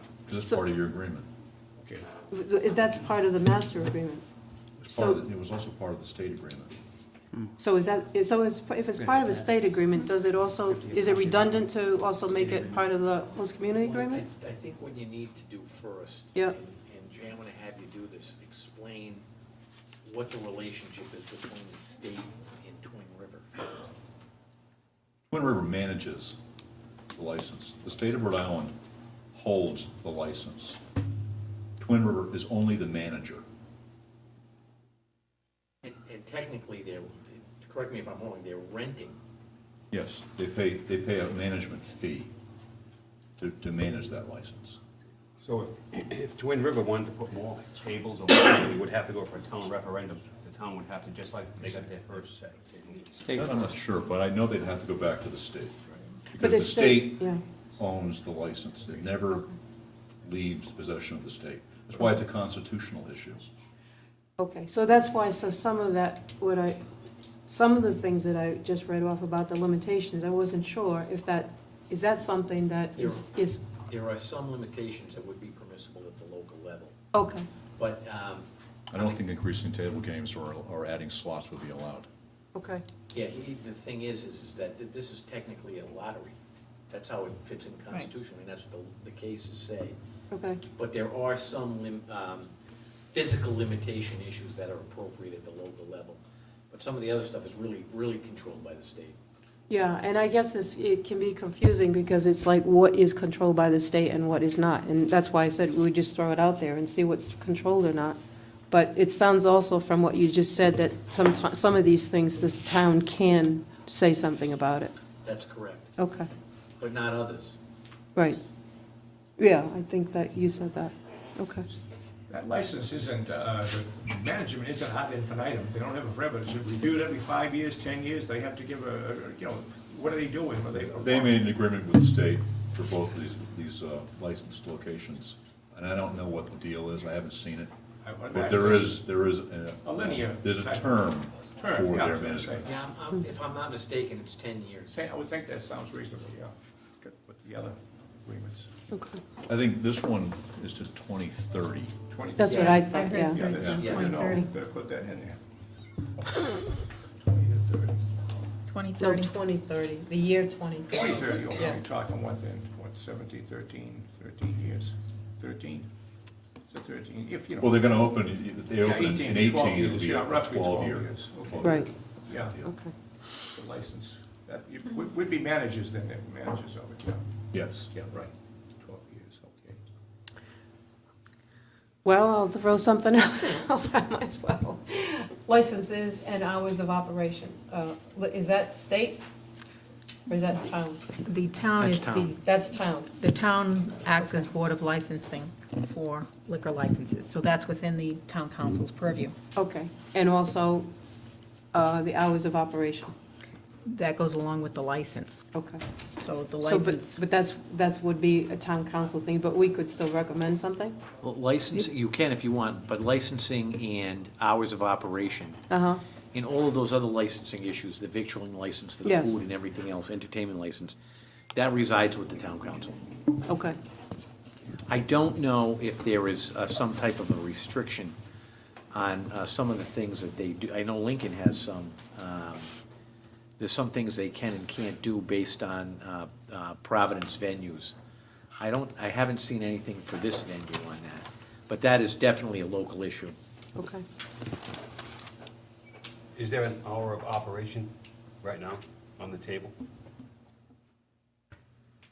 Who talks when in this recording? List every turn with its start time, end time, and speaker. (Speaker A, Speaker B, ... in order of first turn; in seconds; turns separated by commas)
Speaker A: 0.3-1.2, Speaker B: 1.8-2.1, Speaker C: 2.3-4.2, Speaker A: 4.8-6.7, Speaker C: 4.9-5.2, Speaker C: 7.6-14.2, Speaker D: 13.8-19.2, Speaker D: 20.0-23.6, Speaker A: 25.3-26.4, Speaker A: 27.1-28.7, Speaker A: 29.3-30.8, Speaker A: 31.8-33.4, Speaker D: 35.8-39.2, Speaker A: 39.9-42.3, Speaker A: 43.4-44.8, Speaker E: 45.4-53.3, Speaker B: 51.6-52.1, Speaker A: 53.3-55.7, Speaker A: 56.3-59.5, Speaker C: 56.4-57.4, Speaker A: 60.2-63.5, Speaker C: 64.4-66.8, Speaker C: 67.5-73.6, Speaker D: 73.0-73.3, Speaker D: 73.9-77.0, Speaker C: 77.1-77.4, Speaker D: 77.8-79.2, Speaker A: 78.9-82.1, Speaker C: 82.5-82.8, Speaker D: 83.1-86.3, Speaker D: 86.9-90.0, Speaker C: 90.3-90.6, Speaker D: 90.7-92.5, Speaker D: 93.1-96.2, Speaker D: 96.7-99.2, Speaker C: 99.7-108.2, Speaker C: 108.7-114.9, Speaker D: 115.2-116.0, Speaker C: 116.0-116.3, Speaker D: 116.8-117.6, Speaker C: 119.4-121.7, Speaker B: 122.3-131.4, Speaker A: 130.9-137.7, Speaker B: 138.0-139.1, Speaker A: 138.3-142.7, Speaker B: 139.8-142.7, Speaker D: 142.6-145.0, Speaker B: 144.9-148.8, Speaker C: 148.9-149.2, Speaker A: 149.5-152.0, Speaker B: 152.1-152.8, Speaker C: 152.4-154.4, Speaker D: 152.5-152.8, Speaker F: 152.5-154.4, Speaker B: 153.3-155.4, Speaker A: 153.6-153.9, Speaker D: 153.7-154.2, Speaker B: 156.2-158.3, Speaker F: 158.7-159.3, Speaker C: 159.0-160.9, Speaker F: 160.8-161.2, Speaker B: 160.9-165.9, Speaker B: 166.7-167.8, Speaker A: 167.6-171.8, Speaker B: 168.8-172.6, Speaker C: 171.6-171.9, Speaker C: 172.6-172.9, Speaker B: 173.4-177.2, Speaker A: 177.5-177.9, Speaker B: 177.9-179.8, Speaker C: 182.0-189.2, Speaker C: 190.3-191.0, Speaker F: 191.2-192.4, Speaker D: 191.8-192.3, Speaker C: 192.4-193.1, Speaker F: 193.2-199.3, Speaker C: 194.2-194.4, Speaker C: 199.5-200.9, Speaker C: 201.7-203.1, Speaker F: 203.9-205.4, Speaker C: 205.5-205.8, Speaker F: 206.2-207.2, Speaker C: 206.6-211.0, Speaker D: 211.2-215.6, Speaker C: 215.7-216.0, Speaker D: 216.3-220.9, Speaker C: 219.0-219.3, Speaker D: 221.5-223.0, Speaker C: 223.4-223.8, Speaker D: 224.9-228.2, Speaker D: 228.9-232.7, Speaker D: 233.6-237.9, Speaker D: 238.6-243.4, Speaker C: 243.8-244.0, Speaker E: 246.3-249.8